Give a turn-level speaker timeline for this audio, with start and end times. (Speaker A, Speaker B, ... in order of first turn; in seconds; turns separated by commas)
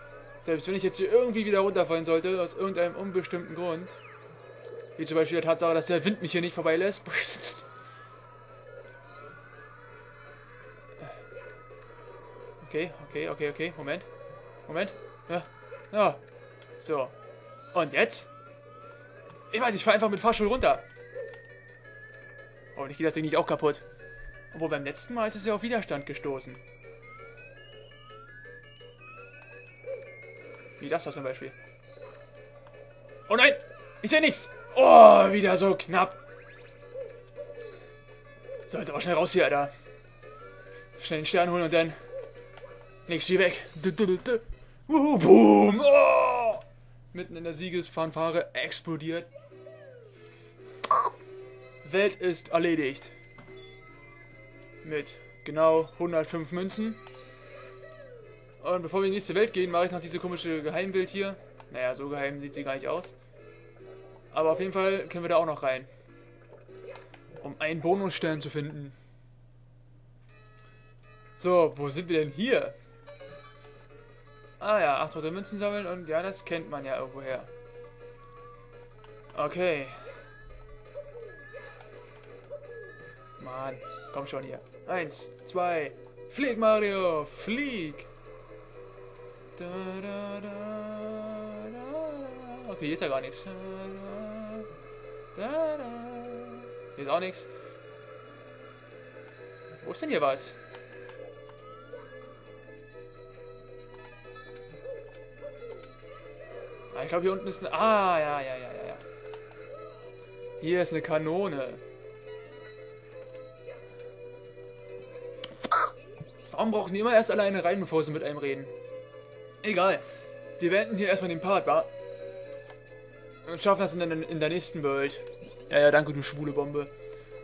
Speaker A: 0.4-4.0, Speaker A: 5.0-7.6, Speaker A: 12.6-14.1, Speaker A: 14.7-16.2, Speaker A: 16.8-17.1, Speaker A: 17.7-18.3, Speaker A: 19.5-20.9, Speaker A: 22.8-23.8, Speaker A: 24.5-26.6, Speaker A: 30.8-31.6, Speaker A: 33.3-36.2, Speaker A: 38.7-39.7, Speaker A: 41.0-42.0, Speaker A: 43.1-49.3, Speaker A: 51.8-53.1, Speaker A: 54.8-57.0, Speaker A: 58.6-63.1, Speaker A: 64.3-65.9, Speaker A: 67.4-69.0, Speaker A: 71.4-72.8, Speaker A: 74.6-77.5, Speaker A: 79.3-80.2, Speaker A: 83.4-88.1, Speaker A: 89.6-94.7, Speaker A: 95.3-97.5, Speaker A: 99.8-100.6, Speaker A: 106.9-109.0, Speaker A: 110.6-111.8, Speaker A: 116.5-118.7, Speaker A: 119.6-120.0, Speaker A: 120.6-121.9, Speaker A: 123.4-126.9